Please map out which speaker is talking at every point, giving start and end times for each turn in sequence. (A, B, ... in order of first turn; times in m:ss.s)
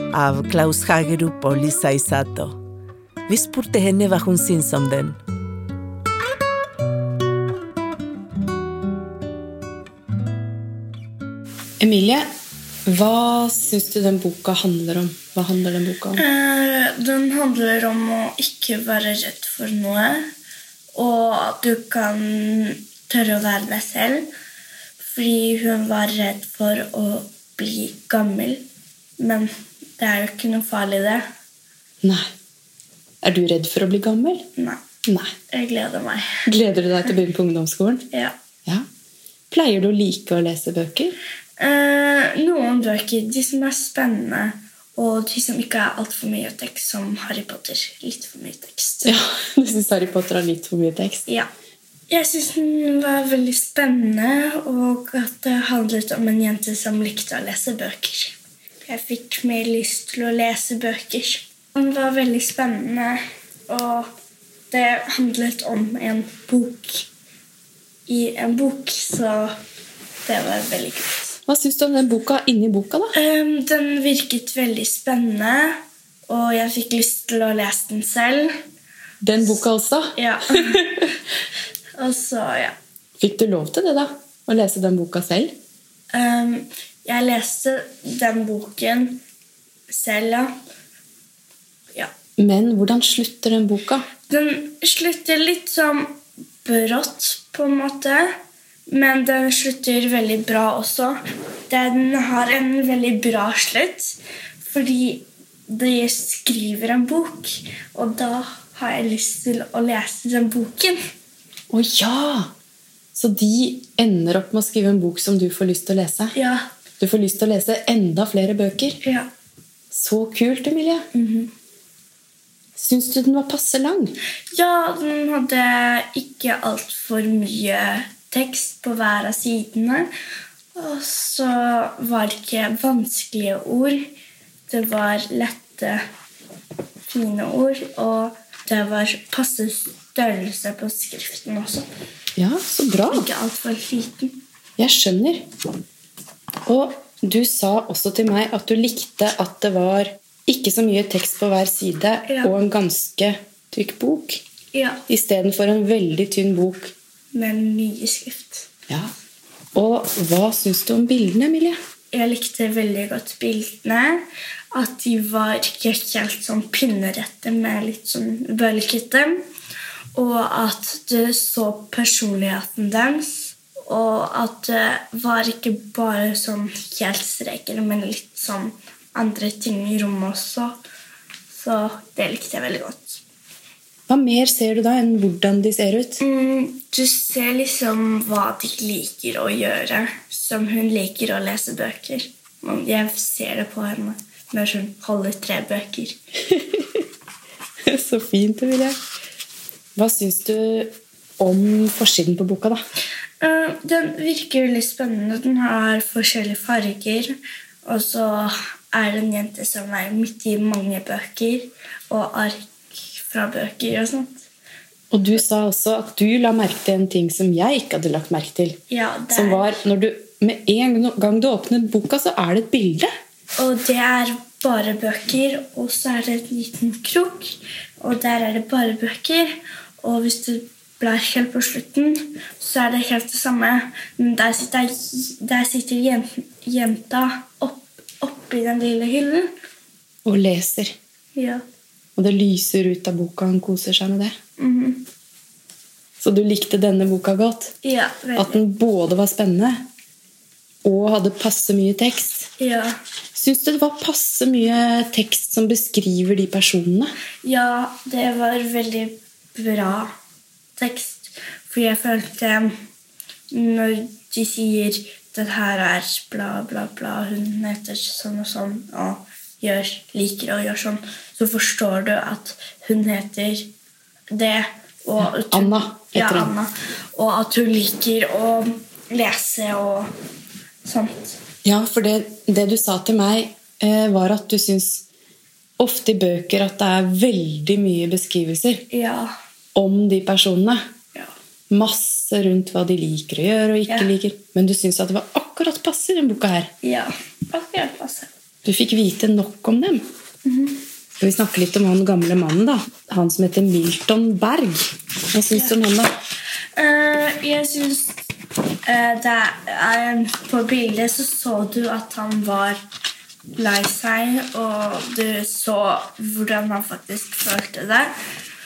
0:00.1-0:02.6 A
0:03.3-0:05.2 A
0:11.8-0:12.3 B
0:12.9-0:16.2 B
0:16.2-0:20.3 C
0:21.0-0:24.3 C
0:25.0-0:28.6 C
0:29.2-0:31.2 C
0:32.0-0:32.3 B
0:33.2-0:34.5 B
0:34.6-0:34.8 C
0:35.0-0:35.3 B
0:35.5-0:36.4 C
0:36.5-0:38.1 B
0:38.1-0:38.4 C
0:39.5-0:41.2 B
0:41.6-0:49.2 C
0:49.0-0:51.2 B
0:52.1-1:04.1 C
1:04.7-1:07.1 C
1:08.1-1:09.5 C
1:10.2-1:11.4 C
1:11.5-1:13.1 B
1:13.1-1:18.5 C
1:19.2-1:21.1 B
1:20.2-1:21.1 C
1:22.0-1:22.8 C
1:23.2-1:25.6 B
1:26.1-1:29.2 C
1:29.9-1:30.5 C
1:32.4-1:34.1 B
1:34.3-1:38.3 C
1:38.9-1:41.2 C
1:41.7-1:51.0 C
1:51.7-1:52.5 B
1:53.1-1:56.4 B
1:56.3-1:56.7 C
1:57.0-1:59.0 B
1:59.0-1:59.3 C
1:59.9-2:01.1 B
2:01.1-2:01.5 C
2:02.8-2:04.2 B
2:04.5-2:10.1 C
2:10.8-2:14.1 C
2:14.7-2:16.0 C
2:17.1-2:21.9 C
2:22.4-2:23.3 B
2:23.1-2:24.4 C
2:24.8-2:25.5 B
2:26.7-2:34.4 B
2:32.3-2:32.6 C
2:34.7-2:35.0 C
2:35.1-2:36.9 B
2:37.3-2:38.7 C
2:39.8-2:41.8 B
2:42.1-2:49.4 C
2:50.2-3:00.8 C
3:01.5-3:03.2 C
3:04.1-3:06.2 B
3:06.2-3:16.2 C
3:16.5-3:17.0 B
3:17.9-3:19.0 B
3:20.0-3:22.8 B
3:23.4-3:34.5 C
3:35.1-3:38.8 B
3:38.9-3:39.8 C
3:39.3-3:43.1 B
3:43.6-3:59.5 C
4:00.2-4:00.9 B
4:01.4-4:01.6 C
4:02.2-4:04.4 B
4:04.6-4:05.1 C
4:06.2-4:07.7 B
4:07.8-4:08.6 C
4:08.4-4:09.9 B
4:10.8-4:12.5 B
4:12.6-4:13.0 C
4:13.3-4:17.1 B
4:17.4-4:20.1 C
4:20.8-4:22.7 C
4:23.5-4:33.7 C
4:34.3-4:40.1 C
4:35.2-4:36.5 B
4:40.8-4:41.4 C
4:41.6-4:45.0 B
4:45.8-4:48.8 B
4:48.9-4:49.3 C
4:49.8-4:50.8 B
4:51.7-4:56.7 B
4:56.8-4:58.3 C
4:58.6-5:00.0 B
5:00.4-5:00.8 C
5:01.2-5:06.1 B
5:05.5-5:05.8 C
5:06.8-5:08.3 C
5:08.8-5:12.8 C
5:13.6-5:18.1 C